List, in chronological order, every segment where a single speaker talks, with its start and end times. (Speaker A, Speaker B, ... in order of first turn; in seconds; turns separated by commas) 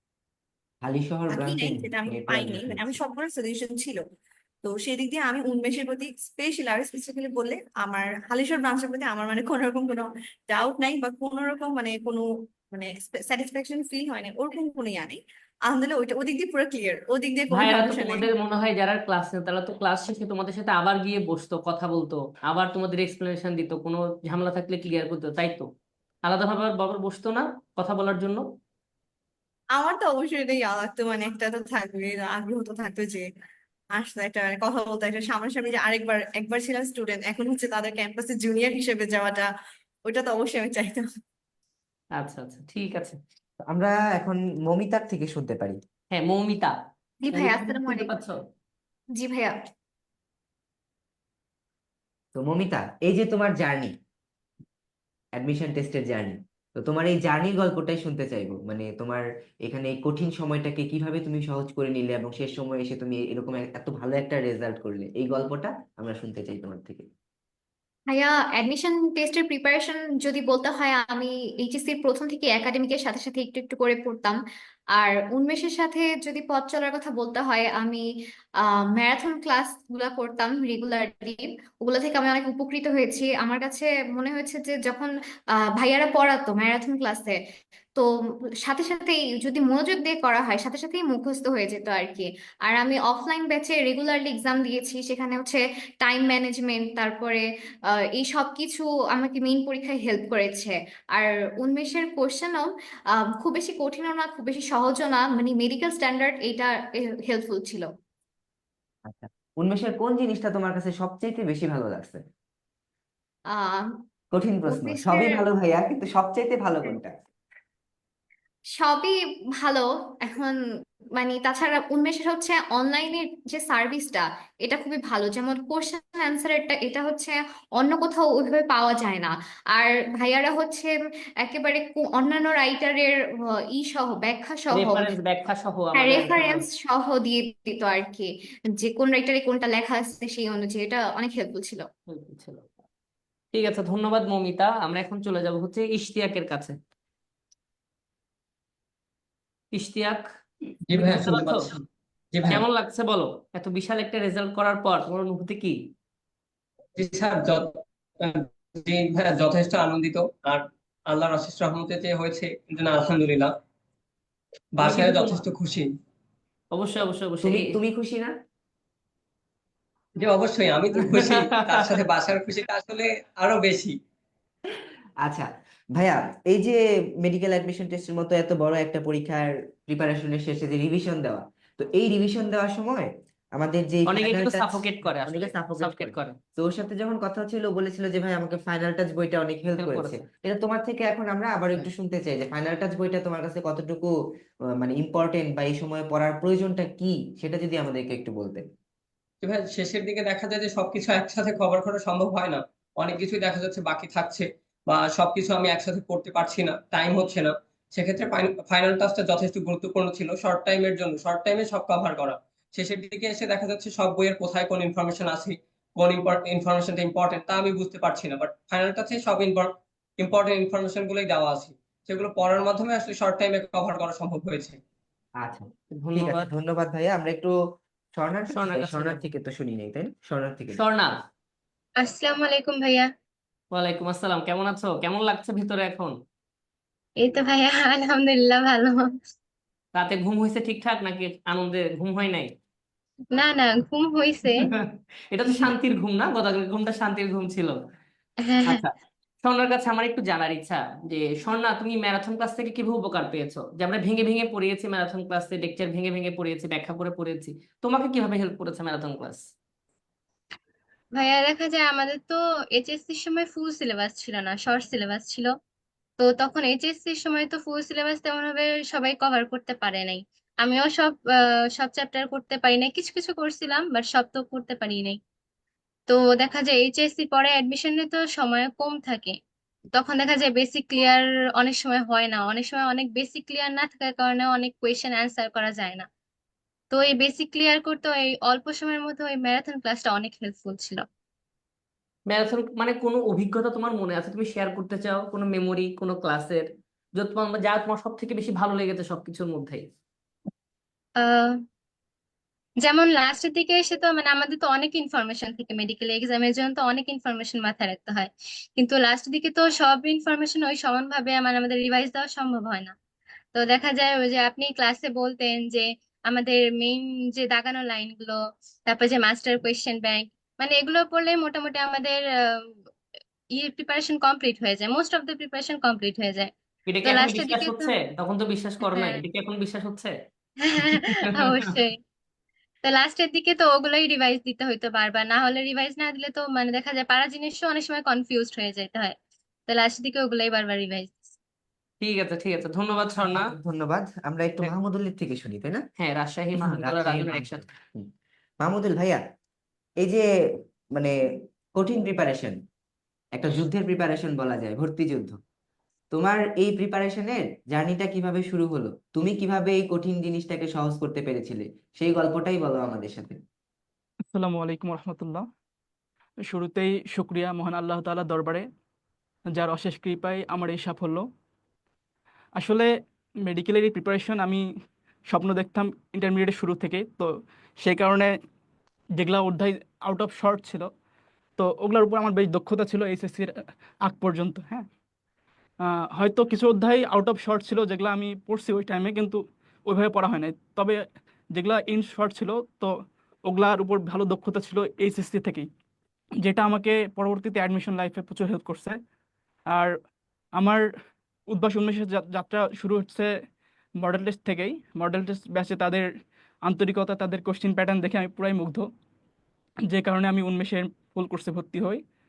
Speaker A: 0.8-3.0, Speaker B: 1.3-4.0, Speaker B: 4.6-18.3, Speaker C: 17.5-25.7, Speaker C: 26.2-28.4, Speaker B: 29.8-33.2, Speaker B: 33.9-39.5, Speaker B: 40.1-41.0, Speaker C: 42.2-43.2, Speaker A: 43.7-45.8, Speaker C: 46.1-46.7, Speaker D: 47.2-48.2, Speaker C: 47.3-48.4, Speaker D: 49.2-49.5, Speaker A: 52.4-53.9, Speaker A: 55.4-67.1, Speaker D: 68.1-74.4, Speaker D: 75.0-78.0, Speaker D: 78.6-85.1, Speaker D: 85.8-87.4, Speaker D: 88.6-97.4, Speaker D: 98.0-102.7, Speaker D: 103.2-107.9, Speaker A: 109.0-112.2, Speaker D: 113.5-113.9, Speaker A: 114.3-117.1, Speaker D: 114.7-115.4, Speaker D: 118.8-120.6, Speaker D: 121.1-130.9, Speaker D: 131.4-135.2, Speaker C: 134.7-136.7, Speaker D: 135.9-138.3, Speaker D: 138.8-141.8, Speaker C: 142.1-142.7, Speaker C: 143.5-146.8, Speaker C: 149.7-150.2, Speaker E: 150.9-151.8, Speaker C: 150.9-151.7, Speaker E: 152.3-152.6, Speaker C: 152.5-155.8, Speaker E: 157.0-163.5, Speaker E: 164.8-165.9, Speaker C: 164.8-165.4, Speaker C: 166.7-167.8, Speaker A: 167.4-168.3, Speaker E: 170.2-173.9, Speaker C: 171.0-171.9, Speaker A: 175.2-194.1, Speaker C: 184.1-186.4, Speaker C: 189.8-190.2, Speaker A: 194.8-198.6, Speaker E: 199.4-224.8, Speaker A: 225.4-227.5, Speaker C: 226.0-226.5, Speaker A: 228.2-230.8, Speaker C: 228.5-229.2, Speaker C: 230.8-231.1, Speaker F: 232.0-233.1, Speaker C: 233.7-236.1, Speaker F: 237.2-239.1, Speaker C: 239.9-242.5, Speaker F: 243.3-244.7, Speaker C: 244.6-247.8, Speaker F: 248.4-248.8, Speaker C: 248.7-248.9, Speaker C: 249.4-259.5, Speaker F: 261.1-265.5, Speaker F: 266.2-271.2, Speaker F: 271.8-275.2, Speaker F: 276.1-279.4, Speaker F: 279.9-286.1, Speaker F: 286.9-291.1, Speaker C: 292.3-299.9, Speaker F: 301.2-301.6, Speaker F: 302.8-312.9, Speaker F: 313.5-322.7, Speaker F: 323.5-326.5, Speaker C: 326.9-330.1, Speaker F: 327.0-327.9, Speaker F: 328.9-329.2, Speaker F: 330.6-332.0, Speaker C: 330.9-331.6, Speaker F: 332.8-339.2, Speaker F: 339.7-341.3, Speaker C: 342.0-343.5, Speaker A: 343.3-345.8, Speaker C: 346.0-347.7, Speaker A: 346.6-348.1, Speaker A: 348.6-349.2, Speaker A: 351.8-352.6, Speaker A: 353.4-355.4, Speaker A: 356.1-363.4, Speaker G: 364.3-365.4, Speaker G: 366.5-368.6, Speaker G: 369.6-371.2, Speaker G: 372.6-372.9, Speaker G: 373.4-374.6, Speaker G: 375.3-377.3, Speaker G: 377.8-378.3, Speaker G: 379.2-380.9, Speaker G: 381.6-383.5, Speaker G: 384.1-384.9, Speaker G: 386.1-391.0, Speaker G: 391.5-392.9, Speaker G: 393.5-395.7, Speaker G: 396.4-399.0, Speaker G: 401.5-403.3, Speaker G: 404.0-406.1, Speaker G: 406.7-408.9, Speaker G: 409.9-412.0